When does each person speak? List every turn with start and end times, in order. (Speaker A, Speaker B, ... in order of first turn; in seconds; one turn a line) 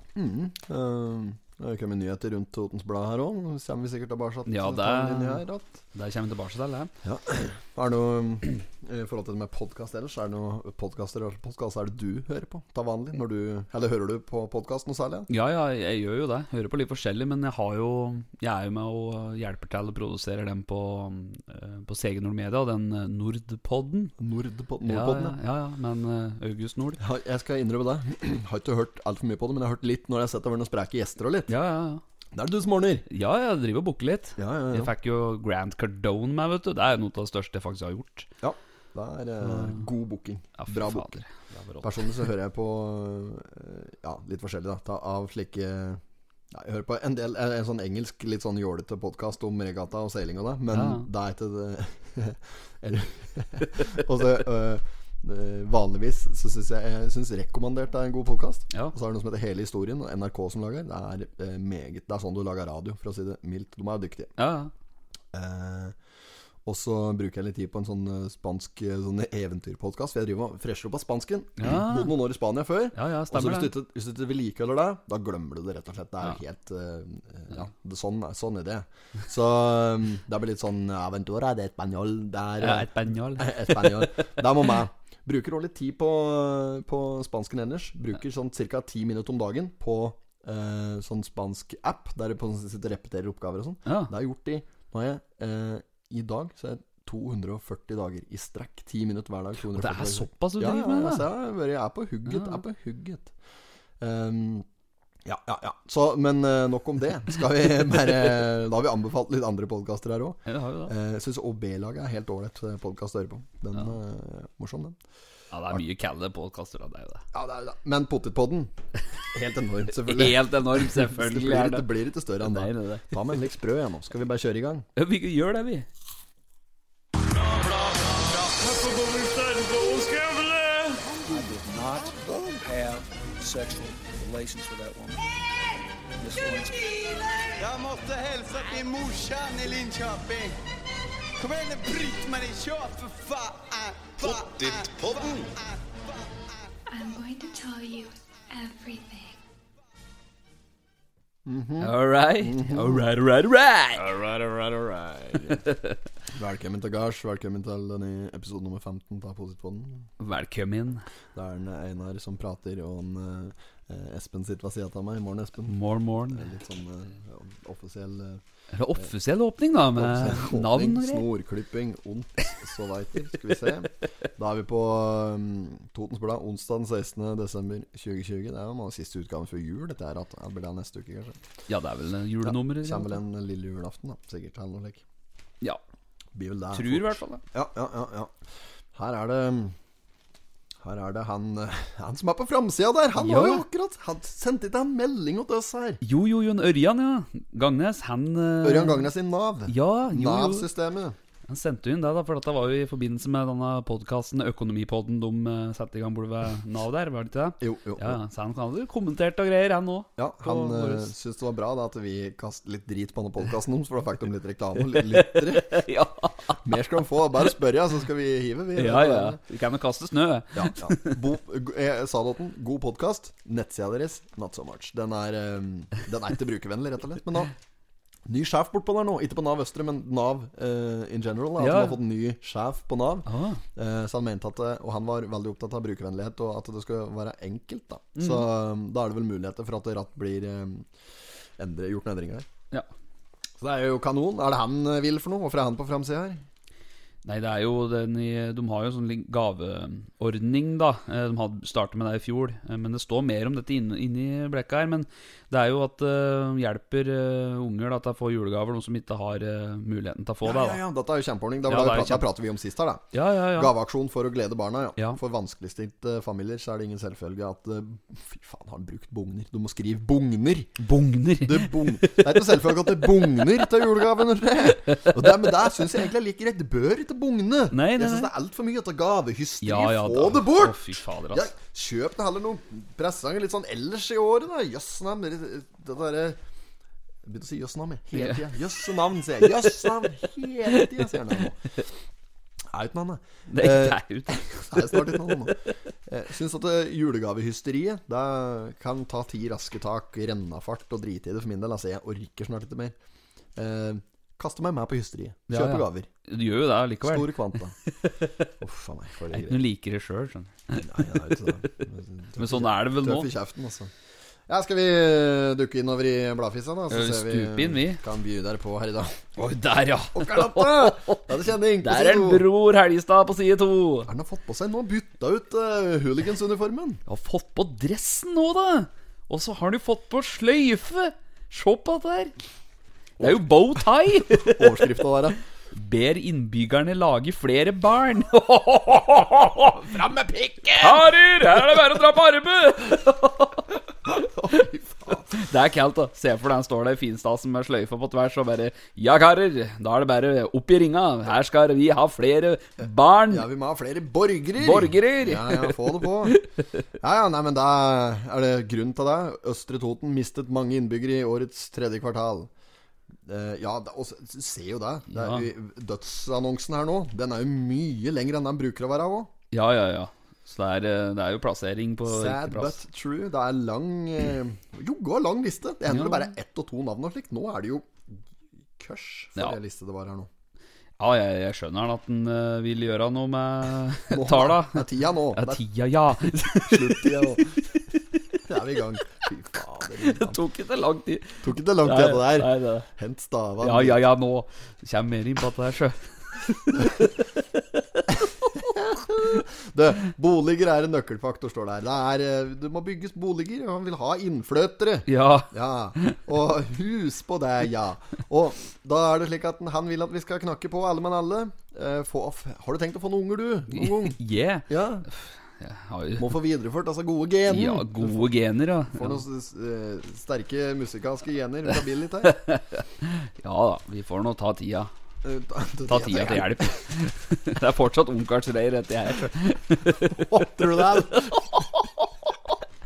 Speaker A: 0.2-5.8
Speaker B: 4.5-6.9
Speaker A: 7.0-15.3
Speaker B: 15.3-24.1
Speaker A: 24.2-25.4
Speaker B: 24.9-27.0
Speaker A: 27.0-31.6
Speaker B: 31.5-32.0
Speaker A: 32.3-33.1
Speaker B: 33.1-38.3
Speaker A: 34.4-34.9
Speaker A: 38.4-41.2
Speaker B: 39.4-39.9
Speaker B: 40.6-42.3
Speaker A: 41.8-46.0
Speaker A: 46.5-64.3
Speaker B: 50.7-51.1
Speaker B: 64.4-64.7
Speaker A: 65.3-66.0
Speaker A: 66.7-103.3
Speaker B: 71.6-72.1
Speaker B: 73.0-73.7
Speaker B: 82.6-84.5
Speaker B: 93.9-94.1
Speaker B: 99.6-101.3
Speaker B: 102.3-102.6
Speaker A: 104.0-104.7
Speaker A: 105.2-115.0
Speaker B: 110.5-110.9
Speaker B: 115.5-117.2
Speaker A: 117.3-118.7
Speaker A: 119.3-124.9
Speaker B: 120.0-123.2
Speaker B: 125.0-125.9
Speaker C: 127.2-135.3
Speaker A: 132.2-132.6
Speaker C: 136.2-137.5
Speaker D: 137.6-140.6
Speaker D: 141.4-146.0
Speaker E: 146.9-149.4
Speaker A: 151.5-153.1
Speaker B: 151.8-154.1
Speaker A: 153.9-155.7
Speaker B: 155.4-156.0
Speaker A: 156.3-160.1
Speaker B: 160.2-161.1
Speaker A: 161.3-168.4
Speaker B: 165.7-166.5
Speaker B: 168.7-171.2
Speaker A: 170.0-181.4
Speaker B: 181.7-183.2
Speaker A: 182.4-185.0
Speaker A: 186.3-188.3
Speaker B: 186.7-187.4
Speaker A: 188.9-189.8
Speaker A: 190.8-196.0
Speaker B: 193.2-193.7
Speaker B: 196.0-199.1
Speaker A: 198.6-201.2
Speaker B: 199.7-200.7
Speaker B: 201.5-211.1
Speaker A: 207.6-208.2
Speaker A: 210.2-215.8
Speaker B: 214.9-216.8
Speaker A: 216.6-219.4
Speaker B: 218.8-221.2
Speaker A: 220.5-227.5
Speaker A: 228.3-240.9
Speaker B: 231.6-232.0
Speaker B: 233.3-233.6
Speaker B: 238.2-238.5
Speaker A: 241.6-242.5
Speaker A: 243.6-246.4
Speaker B: 247.2-260.8
Speaker A: 260.4-270.8
Speaker B: 261.7-262.3
Speaker B: 263.1-263.7
Speaker B: 270.8-273.8
Speaker A: 271.4-286.4
Speaker B: 274.9-275.8
Speaker B: 277.7-278.3
Speaker B: 279.6-281.5
Speaker A: 287.2-291.6
Speaker B: 288.1-288.4
Speaker B: 289.4-290.1
Speaker B: 290.7-291.4
Speaker A: 292.7-303.0
Speaker B: 293.5-295.7
Speaker A: 303.6-306.1
Speaker B: 305.5-307.3
Speaker A: 307.0-307.8
Speaker B: 307.9-308.2
Speaker A: 308.6-309.6
Speaker B: 309.3-311.7
Speaker A: 310.8-313.9
Speaker B: 312.4-313.3
Speaker A: 314.5-319.3
Speaker B: 316.9-318.0
Speaker B: 319.4-324.1
Speaker A: 320.1-322.5
Speaker A: 324.1-327.0
Speaker B: 327.1-332.3
Speaker A: 333.2-333.5
Speaker B: 333.2-335.0
Speaker A: 334.3-335.4
Speaker B: 335.7-339.9
Speaker A: 339.7-341.1
Speaker B: 340.8-344.6
Speaker A: 344.1-345.4
Speaker B: 345.3-353.5
Speaker A: 353.3-356.4
Speaker B: 354.6-356.8
Speaker A: 357.0-362.5
Speaker A: 363.3-369.3
Speaker B: 365.1-365.5
Speaker B: 369.5-372.8
Speaker A: 372.1-378.0
Speaker B: 375.9-376.3
Speaker A: 378.8-380.3
Speaker B: 381.0-387.8
Speaker A: 384.1-385.6
Speaker A: 386.7-387.6
Speaker A: 388.4-390.4
Speaker B: 390.0-392.9
Speaker A: 391.4-394.0
Speaker B: 393.6-398.2
Speaker A: 398.6-415.1
Speaker B: 405.1-406.1
Speaker B: 413.7-416.4
Speaker A: 416.2-418.3
Speaker B: 417.5-419.2
Speaker A: 418.9-422.4
Speaker B: 422.2-424.9
Speaker A: 425.2-426.8
Speaker B: 425.9-431.6
Speaker A: 430.0-431.7